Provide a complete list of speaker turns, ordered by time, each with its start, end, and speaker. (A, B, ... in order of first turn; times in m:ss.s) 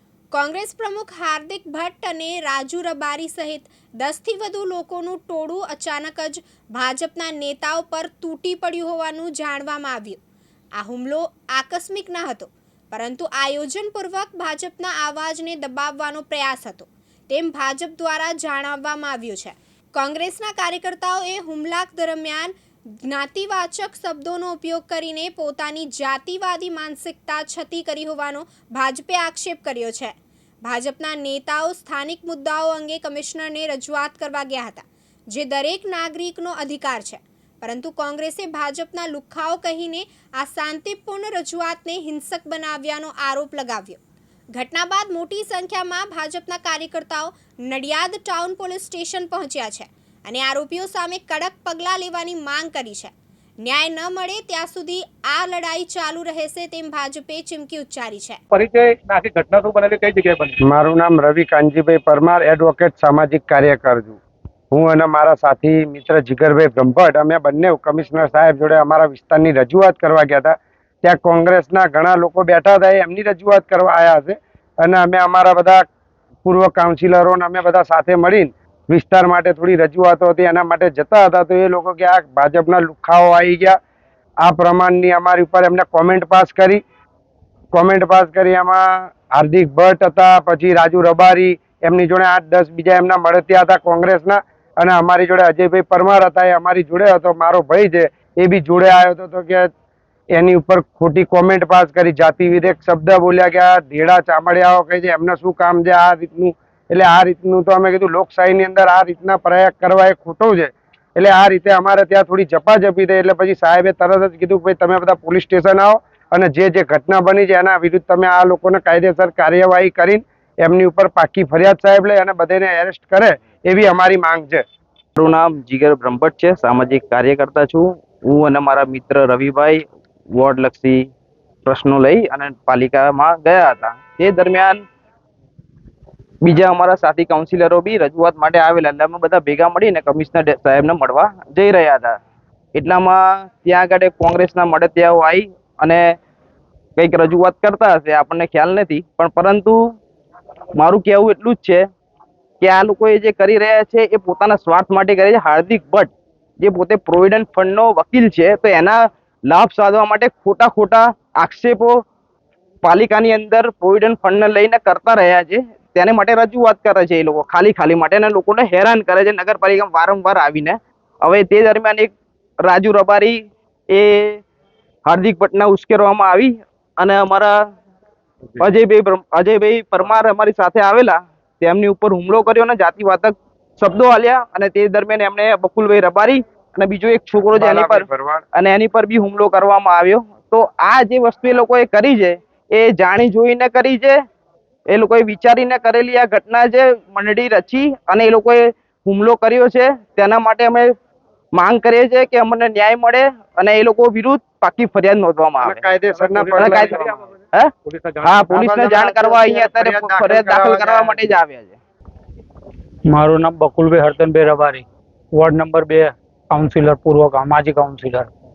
0:00.3-0:10.2 A
0:10.8-0:44.0 A
0:44.5-0:53.1 A
0:53.6-0:58.4 A
0:58.5-1:00.6 B
1:00.6-1:04.2 C
1:04.7-1:15.8 C
1:16.4-1:23.8 C
1:24.4-1:26.8 C
1:27.7-1:39.7 C
1:40.3-2:04.6 C
2:05.2-2:09.8 D
2:10.3-2:11.0 D
2:11.6-2:14.8 D
2:16.4-2:22.1 D
2:22.7-2:26.0 D
2:27.0-2:29.8 D
2:30.8-2:31.8 D
2:32.6-2:39.0 D
2:39.5-2:41.9 D
2:42.8-2:52.1 D
2:52.6-2:53.4 D
2:53.9-2:54.4 D
2:55.1-2:57.5 D
2:58.6-3:14.2 D
3:07.5-3:08.4 C
3:14.9-3:20.9 D
3:21.5-3:25.8 D
3:25.6-3:27.1 C
3:26.1-3:27.3 B
3:26.5-3:27.7 D
3:27.8-3:28.7 B
3:28.2-3:31.8 D
3:28.5-3:31.2 C
3:33.1-3:38.3 E